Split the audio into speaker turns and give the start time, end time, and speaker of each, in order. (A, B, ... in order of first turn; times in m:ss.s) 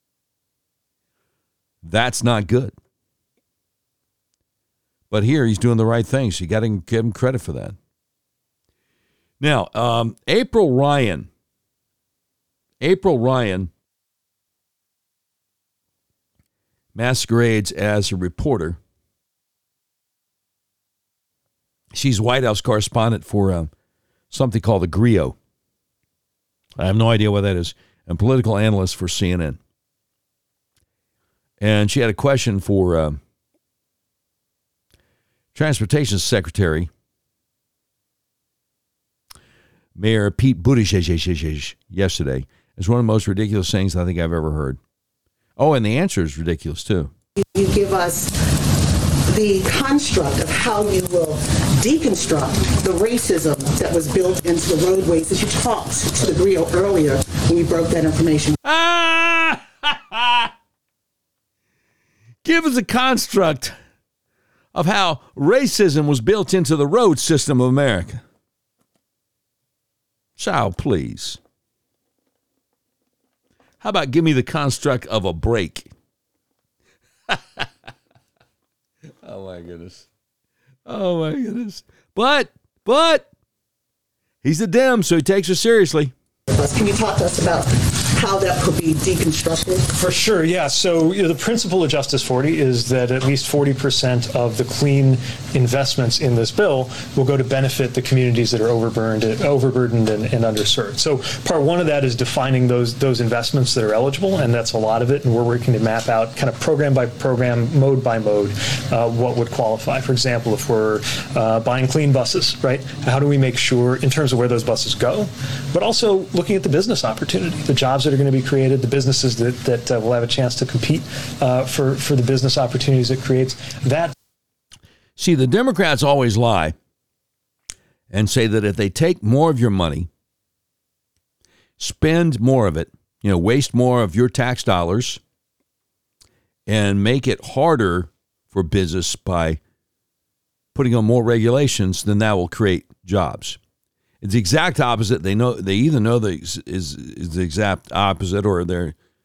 0:01.8-0:02.7 A
0:05.1-0:07.8 A
0:09.4-0:11.3 A
0:12.8-0:13.7 A
0:16.9-0:18.8 A
0:21.9-0:23.7 A
0:24.3-0:25.4 A
0:26.8-0:29.6 A
0:31.6-0:33.2 A
0:35.5-0:36.9 A
0:40.0-0:44.8 A
0:45.6-0:47.1 A
0:47.4-0:48.3 B
0:49.3-0:58.6 B
0:58.6-1:00.5 A
1:02.4-1:03.7 A
1:04.7-1:08.2 A
1:10.4-1:11.4 A
1:13.8-1:15.9 A
1:17.3-1:17.7 A
1:19.2-1:20.0 A
1:20.8-1:23.3 A
1:24.4-1:26.1 A
1:26.5-1:30.0 B
1:30.0-2:04.1 C
2:05.2-2:06.7 A
2:08.1-2:10.1 A
2:11.8-2:15.2 A
2:16.7-2:19.6 A
2:20.7-2:23.6 A
2:24.2-2:28.9 A